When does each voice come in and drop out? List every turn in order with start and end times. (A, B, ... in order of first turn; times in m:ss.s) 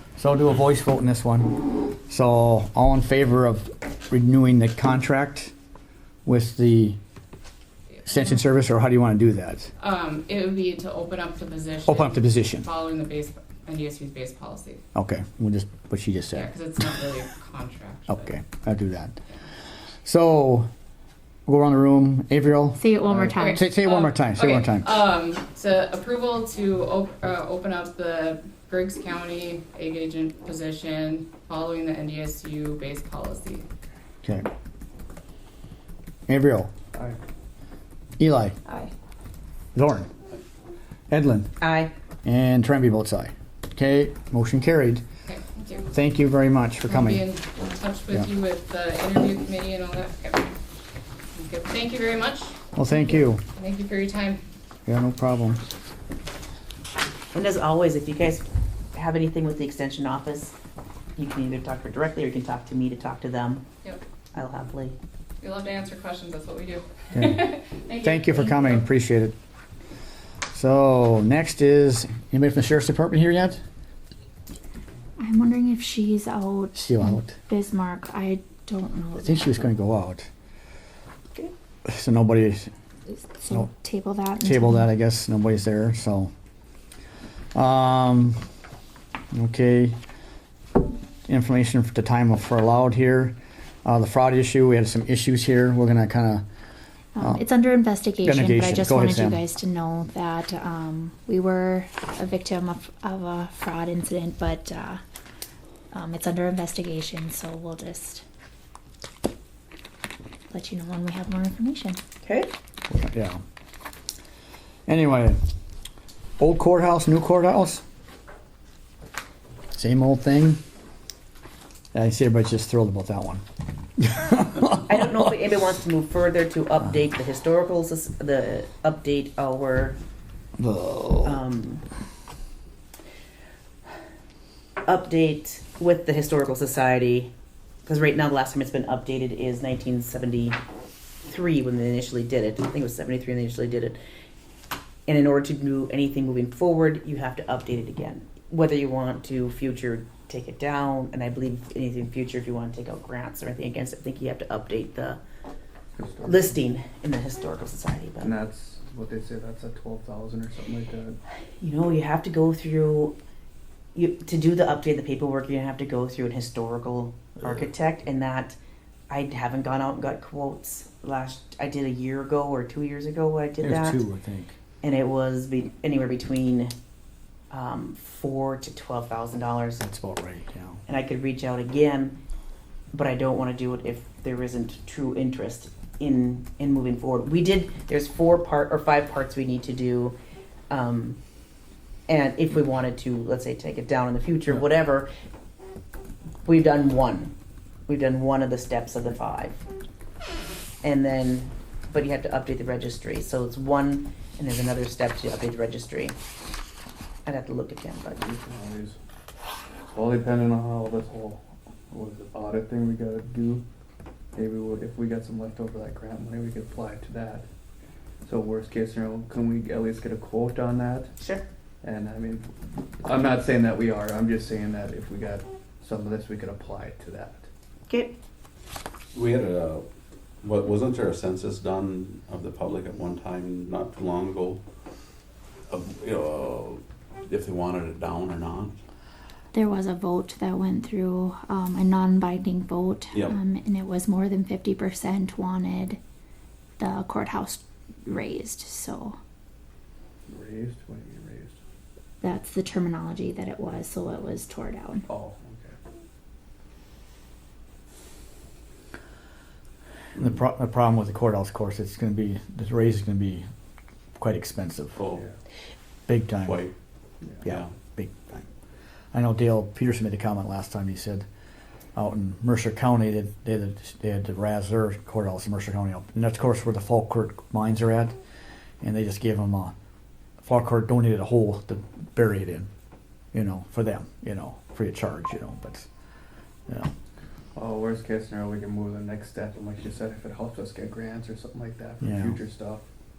0:00.2-0:05.5 A
0:06.2-0:07.0 A
0:08.0-0:09.7 A
0:09.8-0:14.8 B
0:11.8-0:12.6 A
0:14.9-0:16.5 A
0:16.3-0:18.3 B
0:18.1-0:19.1 A
0:20.0-0:20.7 A
0:21.4-0:24.9 A
0:22.8-0:23.6 C
0:23.3-0:33.6 B
0:36.3-0:36.7 A
0:38.2-0:38.6 A
0:39.7-0:40.1 A
0:41.1-0:41.5 A
0:41.6-0:41.9 D
0:42.2-0:45.0 A
0:45.3-0:45.9 B
0:45.9-0:47.2 A
0:46.9-0:50.5 B
0:51.3-0:52.5 B
0:52.7-0:53.4 A
0:53.6-0:54.4 B
0:54.9-0:55.6 A
0:57.3-1:00.5 D
1:01.2-1:03.6 D
1:04.3-1:05.0 D
1:05.4-1:08.9 B
1:07.1-1:07.4 A
1:08.0-1:09.3 A
1:10.5-1:13.6 A
1:15.2-1:19.7 C
1:16.7-1:17.3 A
1:19.2-1:20.3 A
1:21.9-1:22.7 A
1:23.1-1:24.9 C
1:24.4-1:26.3 A
1:27.5-1:28.4 A
1:29.3-1:30.0 A
1:31.3-1:36.4 A
1:37.2-1:45.0 C
1:37.2-1:37.4 A
1:38.2-1:39.4 A
1:45.9-1:48.2 C
1:50.5-1:52.0 C
1:52.2-1:52.5 D
1:52.9-1:53.4 A
1:54.9-1:55.4 A
1:56.4-1:57.8 A
1:59.7-2:00.6 A
2:01.9-2:03.4 A
2:04.0-2:05.2 A
2:04.9-2:10.0 D
2:10.6-2:11.4 A
2:11.2-2:11.8 D
2:14.8-2:17.3 D
2:17.8-2:20.6 D
2:21.2-2:24.0 D
2:25.1-2:35.2 D
2:36.0-2:36.6 E
2:36.2-2:38.3 D
2:38.2-2:41.2 E
2:41.6-2:43.2 D
2:43.9-2:48.6 D
2:49.1-2:54.0 D
2:53.6-2:54.5 A
2:54.8-2:56.7 D
2:57.5-2:59.8 D
2:59.8-3:00.8 A
3:00.9-3:02.2 D
3:02.9-3:10.2 D
3:10.7-3:11.2 D
3:12.1-3:15.1 D
3:16.4-3:17.3 D
3:17.9-3:19.6 D
3:20.8-3:26.2 D
3:27.2-3:28.2 D
3:28.2-3:29.0 E
3:29.9-3:33.6 E
3:34.3-3:37.4 E
3:38.2-3:41.1 E
3:41.2-3:41.4 D
3:41.8-3:42.5 E
3:43.0-3:47.5 E
3:47.9-3:48.1 D
3:49.1-3:49.8 F
3:50.4-3:54.6 F
3:55.7-3:58.8 F
3:59.5-4:06.0 C
4:03.1-4:03.4 F
4:06.8-4:09.2 C
4:10.3-4:11.6 E
4:12.2-4:15.0 C
4:15.1-4:15.8 E
4:20.2-4:23.4 A
4:24.2-4:25.0 A
4:25.0-4:25.2 F
4:26.1-4:26.6 A
4:26.4-4:26.7 F
4:27.4-4:28.4 A
4:27.4-4:27.7 F
4:29.1-4:31.2 A
4:31.9-4:38.1 A
4:38.8-4:39.7 A
4:40.4-4:42.7 A
4:43.3-4:45.9 A
4:47.5-4:52.8 E
4:52.0-4:52.4 A